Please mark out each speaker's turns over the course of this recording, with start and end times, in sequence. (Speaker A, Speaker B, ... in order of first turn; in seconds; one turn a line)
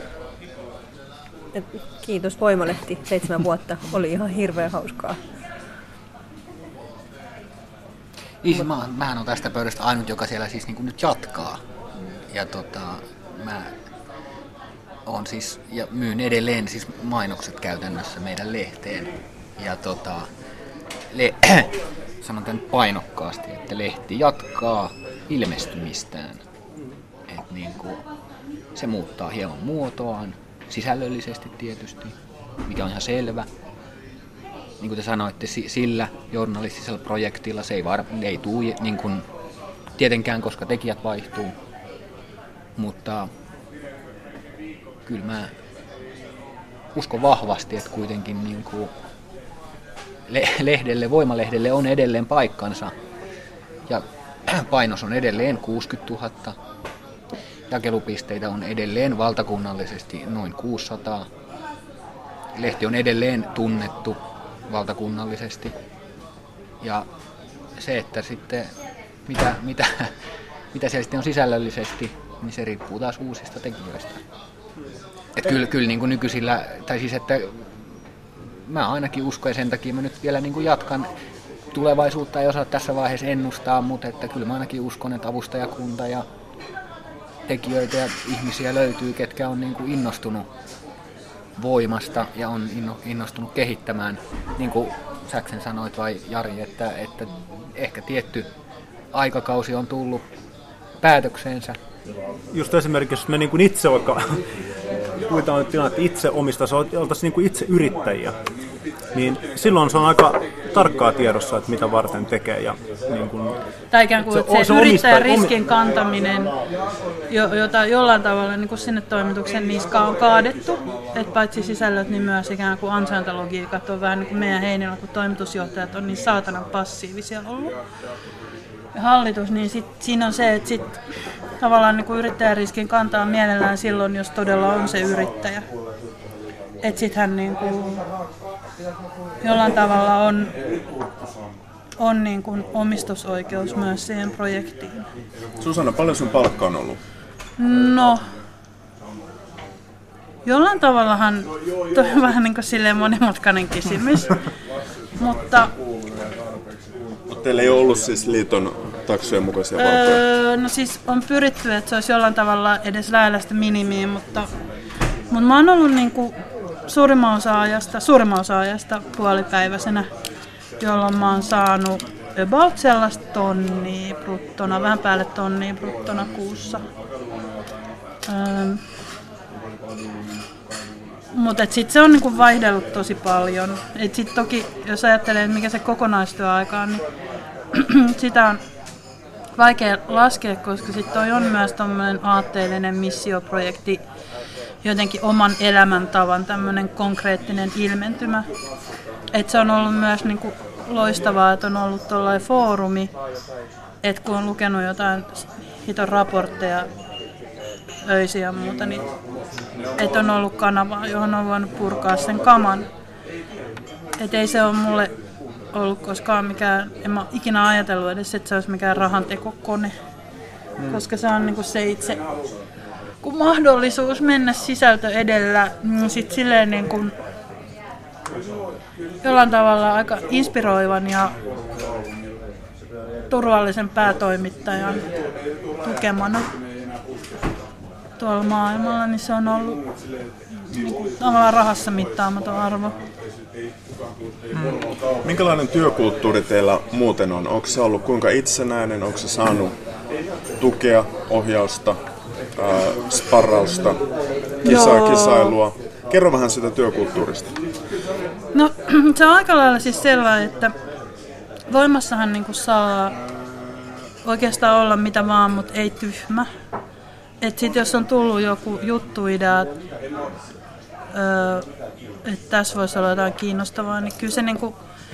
Speaker A: 1.6-5.2
Speaker B: 8.4-11.6
Speaker B: 12.3-13.7
Speaker B: 15.1-20.3
Speaker B: 21.1-26.4
Speaker B: 27.3-28.0
Speaker B: 28.8-33.5
Speaker B: 34.8-39.3
Speaker B: 40.0-41.5
Speaker B: 42.8-43.3
Speaker B: 45.1-45.5
Speaker B: 47.0-48.9
Speaker B: 50.3-52.9
Speaker B: 53.9-56.6
Speaker B: 57.7-61.3
Speaker B: 62.6-65.7
Speaker B: 66.8-67.1
Speaker B: 67.8-68.7
Speaker B: 69.3-70.1
Speaker B: 70.7-74.2
Speaker B: 75.4-77.6
Speaker B: 78.7-81.1
Speaker B: 81.7-86.3
Speaker B: 87.5-90.5
Speaker B: 91.6-98.5
Speaker B: 99.1-100.3
Speaker B: 101.0-101.8
Speaker C: 102.5-104.4
Speaker C: 105.3-108.4
Speaker C: 109.2-113.6
Speaker D: 113.9-116.5
Speaker C: 114.2-115.5
Speaker D: 117.3-127.8
Speaker D: 128.9-131.0
Speaker D: 131.6-135.7
Speaker D: 136.8-138.0
Speaker D: 139.4-140.5
Speaker D: 142.0-145.1
Speaker E: 145.6-147.0
Speaker D: 147.6-148.2
Speaker D: 150.5-154.4
Speaker D: 155.2-155.7
Speaker E: 157.3-160.2
Speaker D: 159.8-164.5
Speaker D: 165.3-166.3
Speaker D: 166.9-170.1
Speaker D: 170.8-176.8
Speaker D: 178.3-178.8
Speaker D: 181.3-187.0
Speaker D: 187.7-188.6
Speaker D: 189.6-194.0
Speaker D: 194.8-198.5
Speaker D: 199.3-203.1
Speaker D: 204.0-206.9
Speaker D: 208.1-209.1
Speaker D: 210.0-212.9
Speaker D: 214.2-215.1
Speaker D: 215.7-219.9
Speaker D: 220.9-222.2
Speaker D: 223.2-227.1
Speaker D: 229.2-231.4
Speaker D: 233.3-235.1
Speaker D: 235.8-236.5
Speaker D: 238.2-239.8
Speaker D: 240.7-243.0
Speaker E: 245.2-249.8
Speaker E: 250.6-252.0
Speaker E: 252.6-254.0
Speaker E: 254.6-257.6
Speaker D: 254.6-255.5
Speaker D: 258.5-260.7
Speaker D: 261.7-263.2
Speaker D: 264.2-266.5
Speaker D: 267.4-269.7
Speaker D: 271.1-271.7
Speaker D: 272.2-274.7